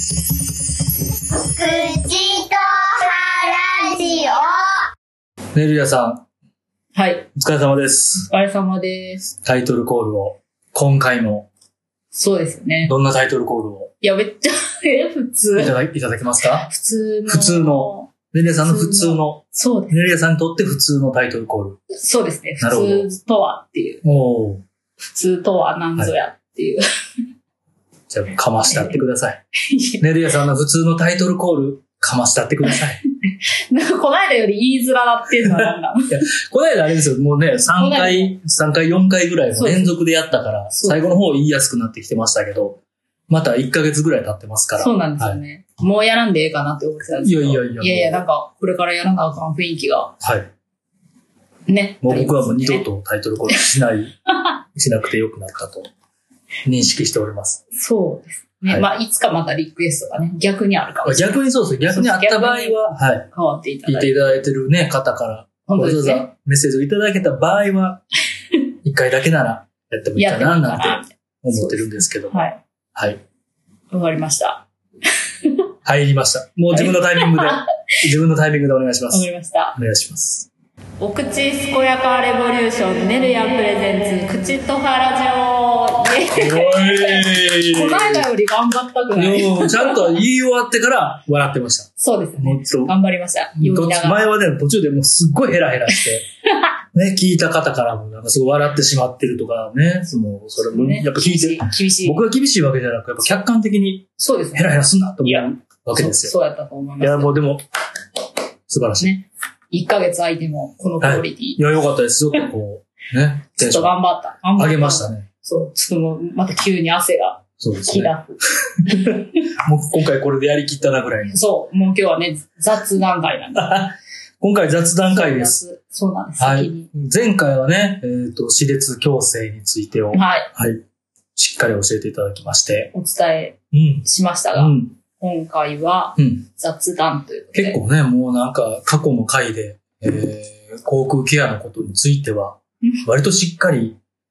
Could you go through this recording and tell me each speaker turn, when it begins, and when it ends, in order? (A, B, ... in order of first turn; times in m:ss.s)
0:01.2-0:04.8 A
0:05.5-0:06.2 B
0:06.9-0:07.3 C
0:07.3-0:08.3 B
0:08.3-0:09.3 C
0:09.4-0:11.5 B
0:12.1-0:12.9 C
0:12.8-0:13.9 B
0:14.0-0:15.7 C
0:15.6-0:16.7 B
0:16.6-0:20.0 C
0:17.3-0:21.8 B
0:21.9-0:24.0 C
0:22.6-0:23.1 B
0:24.0-0:24.6 B
0:25.1-0:26.8 C
0:28.1-0:29.4 B
0:28.7-0:29.0 C
0:29.6-0:30.0 C
0:30.0-0:33.0 B
0:33.3-0:36.3 C
0:35.4-0:45.4 B
0:37.8-0:38.4 C
0:39.6-0:39.9 C
0:40.7-0:41.1 C
0:44.8-0:50.1 C
0:47.2-0:48.2 B
0:50.2-0:50.5 B
0:51.7-0:52.8 C
0:52.0-0:54.2 B
0:54.7-0:55.9 B
0:56.6-0:57.6 B
0:57.7-1:04.1 C
1:01.0-1:03.3 B
1:03.8-1:08.0 B
1:05.7-1:06.3 C
1:08.8-1:13.2 B
1:10.2-1:12.6 C
1:13.9-1:14.6 C
1:15.8-1:20.5 B
1:16.7-1:17.7 C
1:19.1-1:19.8 C
1:21.0-1:30.2 C
1:26.3-1:28.3 B
1:29.1-1:32.9 B
1:32.0-1:34.2 C
1:33.6-1:36.3 B
1:36.9-1:46.3 B
1:40.6-1:42.2 C
1:44.2-1:44.7 C
1:45.2-1:47.4 C
1:47.0-1:47.6 B
1:48.7-1:49.1 B
1:49.0-1:51.6 C
1:51.0-1:53.9 B
1:53.6-1:59.2 C
1:54.6-1:55.3 B
1:57.6-1:58.1 B
1:58.7-2:01.3 B
2:01.3-2:03.8 C
2:03.6-2:05.6 B
2:05.1-2:06.9 C
2:06.4-2:10.8 B
2:10.1-2:10.5 C
2:11.4-2:12.9 B
2:12.9-2:17.8 C
2:13.7-2:14.9 B
2:16.2-2:16.4 B
2:17.5-2:24.0 B